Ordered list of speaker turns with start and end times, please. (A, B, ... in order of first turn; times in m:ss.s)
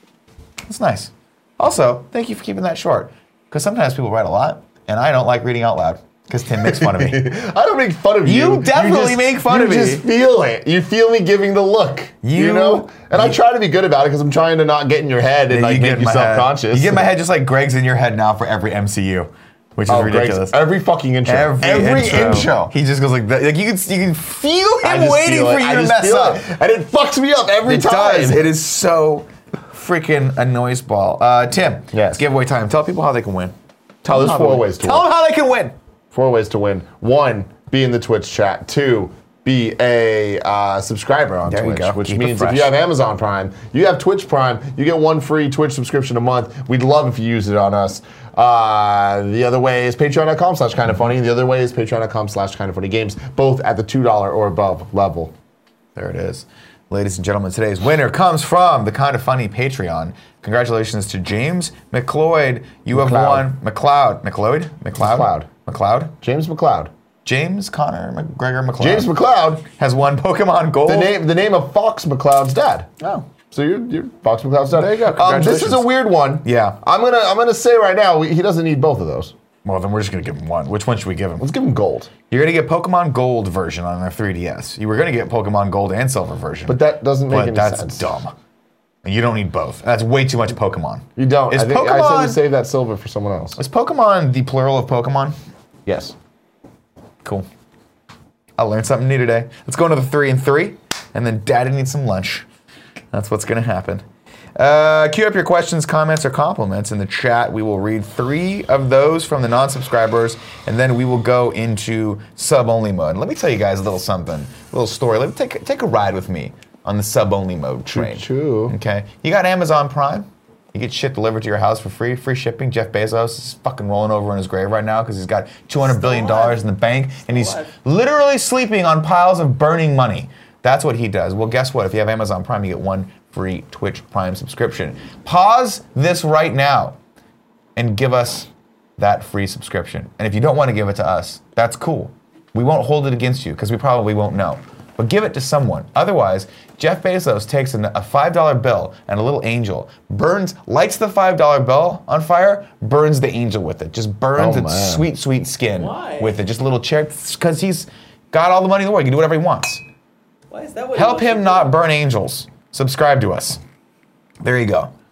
0:00.7-0:07.3 A
0:06.6-0:17.1 B
0:08.2-0:10.0 A
0:12.2-0:13.4 A
0:15.5-0:20.6 A
0:19.9-0:22.7 B
0:21.2-0:26.4 A
0:24.8-0:28.5 B
0:27.6-0:35.7 A
0:31.9-0:32.2 B
0:34.1-0:35.0 B
0:36.1-0:55.3 B
0:41.5-0:42.7 A
0:56.0-1:06.1 A
1:02.9-1:03.5 B
1:05.0-1:05.5 B
1:06.2-1:06.9 B
1:07.2-1:09.1 A
1:08.8-1:09.6 B
1:09.6-1:11.2 A
1:10.9-1:19.3 B
1:13.0-1:13.2 A
1:14.7-1:15.9 A
1:16.4-1:16.8 A
1:19.6-1:21.5 A
1:21.4-1:22.1 B
1:22.3-1:28.3 A
1:26.7-1:28.1 B
1:29.0-1:32.4 A
1:31.2-1:33.6 B
1:33.6-1:35.3 A
1:35.9-1:36.1 B
1:38.6-1:42.5 A
1:43.1-1:44.0 A
1:44.6-2:17.0 A
1:57.9-1:58.7 B
2:05.8-2:06.6 C
2:07.3-2:07.7 C
2:17.8-2:39.8 A
2:34.4-2:35.0 B
2:35.7-2:36.4 C
2:40.5-2:41.7 C
2:40.9-2:43.6 A
2:44.4-2:44.9 A